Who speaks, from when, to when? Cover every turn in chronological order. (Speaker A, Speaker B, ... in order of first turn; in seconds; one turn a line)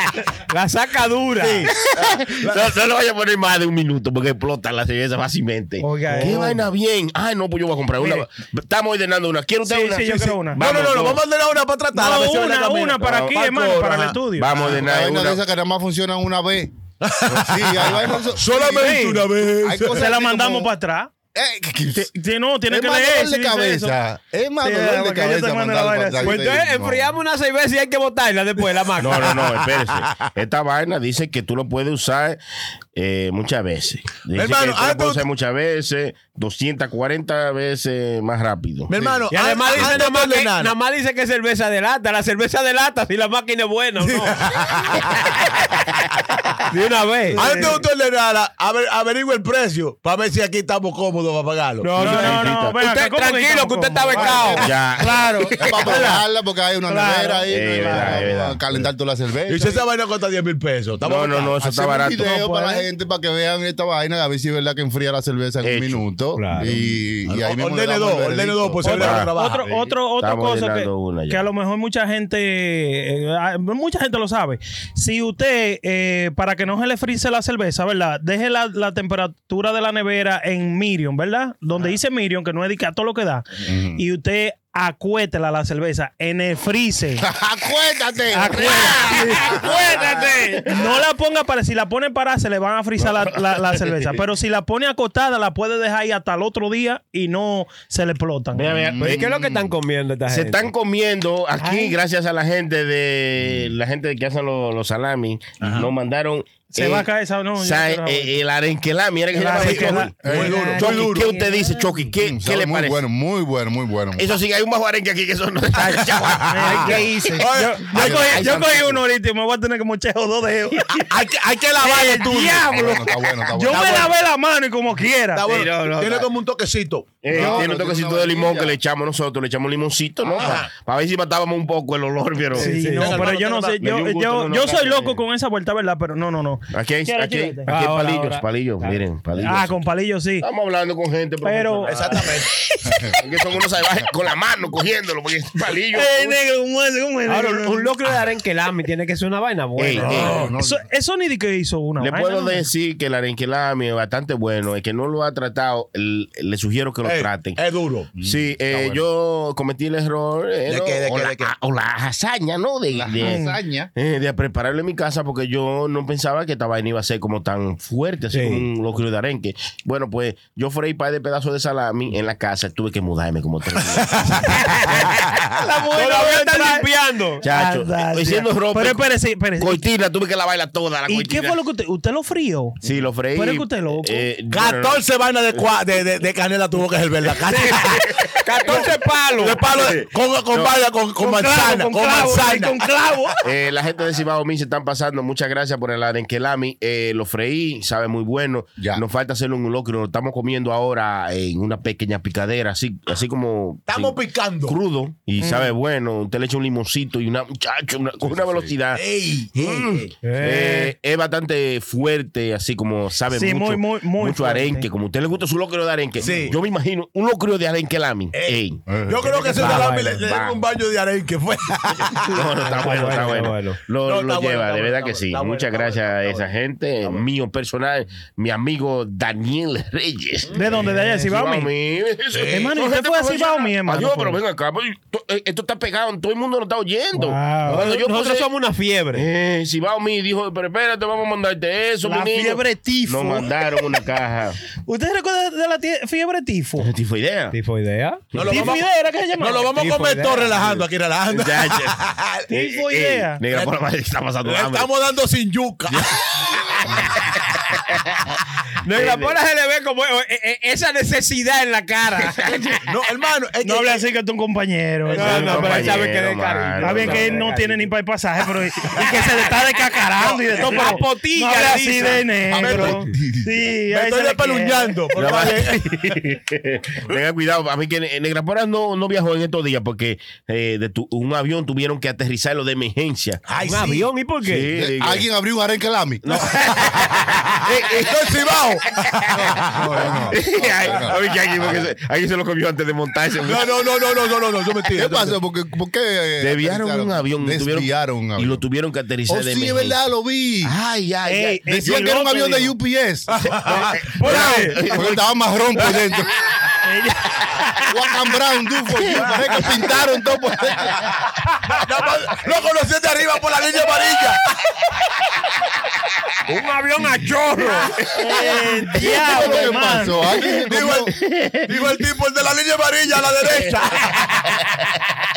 Speaker A: 0.4-1.7
Speaker B: 1.4-2.7
Speaker C: 1.9-11.2
Speaker D: 5.8-6.6
Speaker A: 5.9-6.4
Speaker D: 8.0-8.2
Speaker D: 9.6-10.6
Speaker B: 10.6-14.1
Speaker D: 11.9-14.5
Speaker C: 13.0-13.7
Speaker C: 14.2-15.4
Speaker E: 14.7-16.7
Speaker B: 17.0-20.0
Speaker E: 17.2-20.7
Speaker D: 18.7-19.3
Speaker D: 19.9-21.1
Speaker E: 21.3-22.1
Speaker D: 22.1-23.9
Speaker E: 22.7-27.1
Speaker D: 24.6-26.5
Speaker A: 26.2-29.4
Speaker C: 29.0-32.4
Speaker C: 33.0-38.9
Speaker B: 34.4-35.2
Speaker B: 38.9-40.7
Speaker E: 38.9-39.3
Speaker A: 39.3-45.1
Speaker B: 44.0-45.2
Speaker A: 46.7-47.8
Speaker D: 47.3-47.7
Speaker B: 47.4-52.0
Speaker A: 51.8-54.7
Speaker D: 51.9-56.2
Speaker C: 52.0-52.8
Speaker B: 54.2-54.5
Speaker C: 54.5-56.0
Speaker E: 55.6-59.8
Speaker D: 56.9-58.3
Speaker C: 57.5-58.6
Speaker B: 59.5-61.5
Speaker C: 61.0-62.2
Speaker E: 61.6-69.1
Speaker D: 62.2-62.9
Speaker C: 65.6-66.0
Speaker A: 66.3-66.7
Speaker B: 67.3-69.7
Speaker D: 68.8-87.2
Speaker C: 68.9-69.3
Speaker C: 70.2-71.5
Speaker E: 83.7-84.0
Speaker E: 87.2-90.2
Speaker D: 88.3-98.7
Speaker C: 88.5-90.8
Speaker C: 93.2-93.9
Speaker C: 98.5-99.5
Speaker E: 98.7-99.7
Speaker A: 99.0-100.7
Speaker C: 100.3-110.1
Speaker D: 101.6-102.0
Speaker B: 105.6-105.9
Speaker D: 106.7-108.4
Speaker D: 109.3-110.7
Speaker B: 109.6-111.3
Speaker E: 110.2-110.6
Speaker A: 110.3-111.7
Speaker C: 110.8-113.0
Speaker E: 112.2-114.3
Speaker C: 114.2-117.4
Speaker B: 115.9-118.8
Speaker D: 116.5-121.1
Speaker A: 116.7-117.4
Speaker E: 117.9-118.5
Speaker C: 118.0-118.9
Speaker B: 121.0-122.7
Speaker D: 121.8-125.5
Speaker E: 122.6-124.1
Speaker B: 123.7-124.1
Speaker B: 125.3-128.7
Speaker C: 125.5-126.3
Speaker C: 127.2-133.3
Speaker E: 127.3-128.7
Speaker B: 130.3-130.7
Speaker A: 132.5-133.3
Speaker B: 132.6-133.8
Speaker D: 132.6-137.7
Speaker C: 133.8-135.2
Speaker C: 136.7-139.9
Speaker A: 137.7-139.6
Speaker D: 139.4-140.5
Speaker C: 140.4-142.4
Speaker D: 141.4-142.1
Speaker B: 141.8-142.5
Speaker C: 143.1-146.4
Speaker D: 145.9-147.9
Speaker A: 147.3-150.4
Speaker C: 149.8-150.5
Speaker B: 150.0-150.5
Speaker E: 150.1-150.8
Speaker D: 150.6-152.7
Speaker C: 152.0-157.6
Speaker B: 157.0-158.1
Speaker E: 158.2-159.0
Speaker C: 158.2-163.4
Speaker B: 160.7-161.5
Speaker E: 162.9-163.9
Speaker D: 163.2-163.6
Speaker C: 163.9-175.0
Speaker A: 168.3-168.7
Speaker B: 173.8-175.4
Speaker D: 175.6-176.9
Speaker A: 175.9-177.4
Speaker C: 177.4-181.6
Speaker D: 177.4-179.8
Speaker D: 181.1-182.8
Speaker C: 182.8-185.7
Speaker D: 183.3-184.3
Speaker B: 184.5-188.1
Speaker A: 187.5-187.8
Speaker C: 187.6-188.8
Speaker A: 188.3-189.6
Speaker B: 188.6-192.8
Speaker C: 189.7-190.7
Speaker D: 191.2-193.3
Speaker C: 193.4-209.0
Speaker B: 203.9-204.8
Speaker D: 205.4-205.7
Speaker E: 208.3-208.7
Speaker B: 208.9-210.1
Speaker C: 209.5-218.8
Speaker A: 210.2-210.9
Speaker D: 213.3-214.8
Speaker B: 216.2-216.6
Speaker B: 218.3-223.4
Speaker E: 218.9-219.5
Speaker A: 219.5-220.2
Speaker C: 219.5-220.6
Speaker C: 222.1-238.5
Speaker A: 222.6-223.8
Speaker B: 224.0-226.5
Speaker B: 230.5-230.8
Speaker D: 230.5-231.7
Speaker D: 232.4-234.4
Speaker D: 237.1-237.9
Speaker A: 237.6-239.3
Speaker C: 239.1-244.6
Speaker D: 242.0-243.9
Speaker D: 244.8-246.9
Speaker C: 246.8-247.5
Speaker A: 247.5-248.2
Speaker C: 248.3-248.7
Speaker B: 248.3-252.5
Speaker D: 248.4-249.7
Speaker A: 249.7-250.7
Speaker C: 251.3-252.0
Speaker C: 252.5-254.9
Speaker D: 252.5-253.4
Speaker B: 254.4-257.2
Speaker A: 258.8-262.4
Speaker C: 258.9-259.3
Speaker C: 262.3-262.8
Speaker B: 262.8-264.0
Speaker D: 263.6-265.9
Speaker B: 265.0-266.0
Speaker A: 265.1-267.9
Speaker C: 265.2-267.4
Speaker D: 266.8-275.1
Speaker A: 270.2-272.9
Speaker E: 272.5-273.5
Speaker B: 272.5-273.0
Speaker B: 273.9-276.2
Speaker C: 275.1-283.4
Speaker B: 283.5-284.1
Speaker A: 283.6-284.7
Speaker C: 284.4-285.2
Speaker E: 284.7-286.5
Speaker C: 286.2-288.5
Speaker B: 286.4-290.4
Speaker C: 289.1-289.8
Speaker E: 289.3-291.8
Speaker C: 290.3-293.8
Speaker B: 293.4-295.3
Speaker E: 294.9-298.6
Speaker C: 296.4-300.0
Speaker E: 299.3-300.7
Speaker C: 300.6-301.6
Speaker D: 301.2-302.7
Speaker E: 301.7-303.3
Speaker B: 303.3-305.0
Speaker C: 303.5-306.5
Speaker A: 304.2-304.8
Speaker E: 304.9-306.3
Speaker D: 306.8-307.8
Speaker E: 307.9-311.0
Speaker B: 311.7-314.4
Speaker A: 316.5-317.9
Speaker C: 317.8-319.8
Speaker D: 318.1-320.2
Speaker E: 318.9-321.1
Speaker C: 320.4-322.0
Speaker B: 320.7-321.1
Speaker B: 321.6-324.5